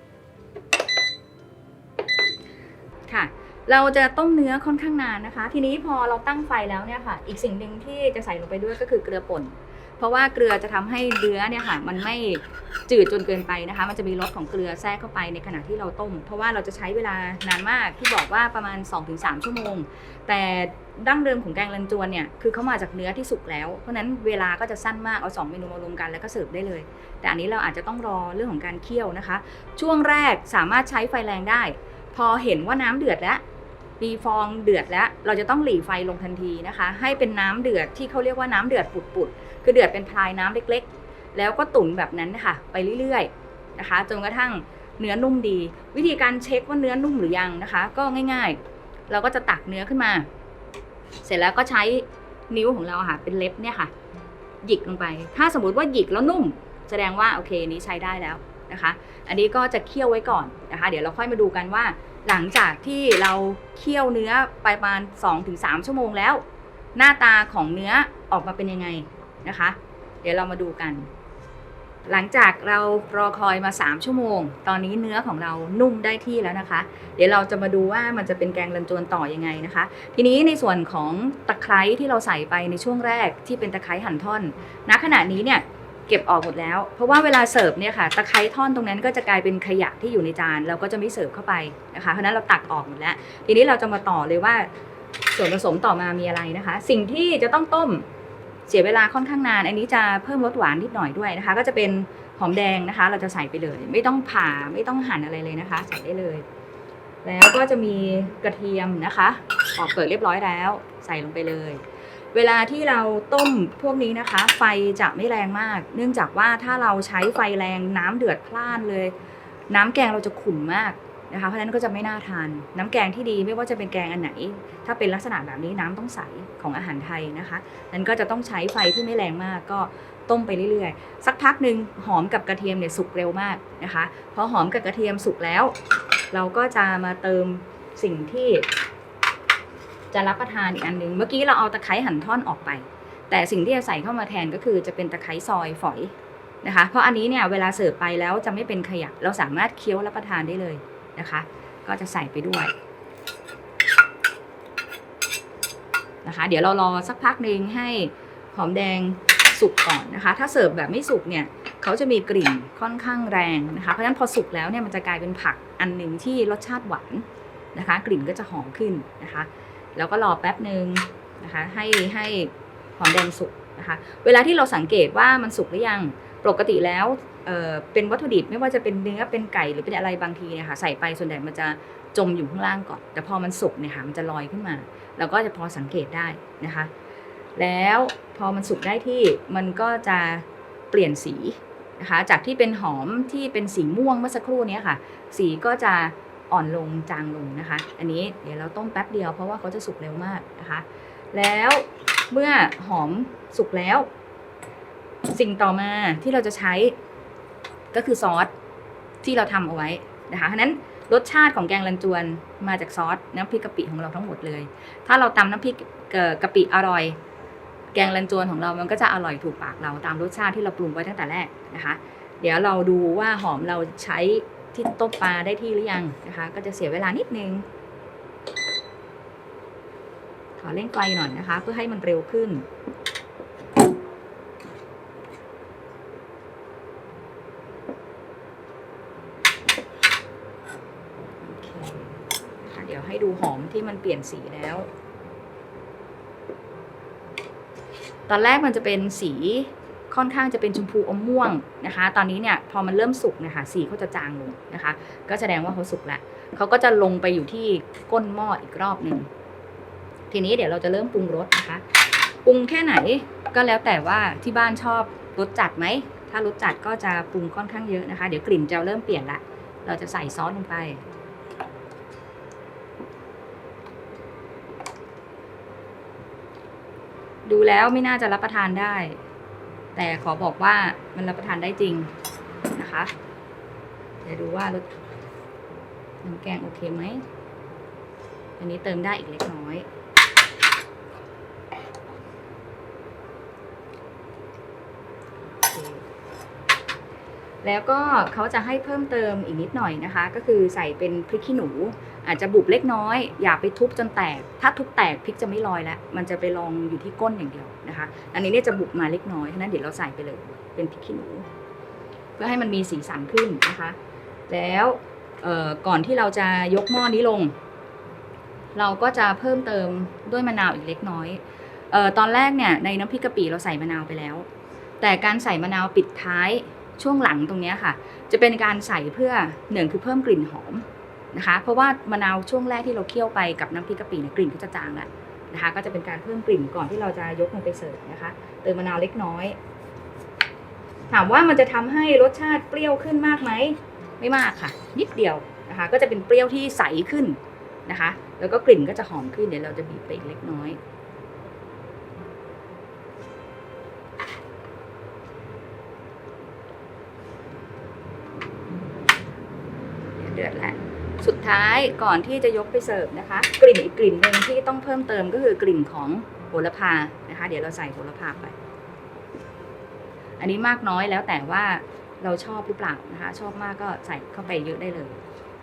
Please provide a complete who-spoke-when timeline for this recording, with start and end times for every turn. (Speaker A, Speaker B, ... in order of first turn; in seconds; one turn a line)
Speaker A: 3.1-33.4
Speaker A: 34.0-50.3
Speaker A: 51.2-53.9
Speaker A: 54.6-66.4
Speaker A: 66.9-71.1
Speaker A: 72.0-94.7
Speaker A: 95.3-98.1
Speaker A: 98.7-106.4
Speaker A: 107.2-119.1
Speaker A: 119.7-135.8
Speaker A: 136.3-138.7
Speaker A: 140.1-152.7
Speaker A: 156.2-186.9
Speaker A: 187.6-204.1
Speaker A: 205.3-207.0
Speaker A: 207.9-208.5
Speaker A: 209.2-217.2
Speaker A: 217.9-227.7
Speaker A: 230.6-232.7
Speaker A: 241.4-244.9
Speaker A: 248.3-259.3
Speaker A: 260.3-261.8
Speaker A: 262.4-271.0
Speaker A: 277.4-279.2
Speaker A: 279.9-282.1
Speaker A: 282.8-283.1
Speaker A: 284.2-284.9
Speaker A: 286.2-287.2
Speaker A: 288.6-289.9
Speaker A: 295.4-296.0
Speaker A: 297.6-311.4
Speaker A: 312.4-314.0
Speaker A: 314.5-317.5
Speaker A: 318.7-324.5
Speaker A: 325.0-339.6
Speaker A: 341.1-350.8
Speaker A: 360.1-368.6
Speaker A: 370.4-375.2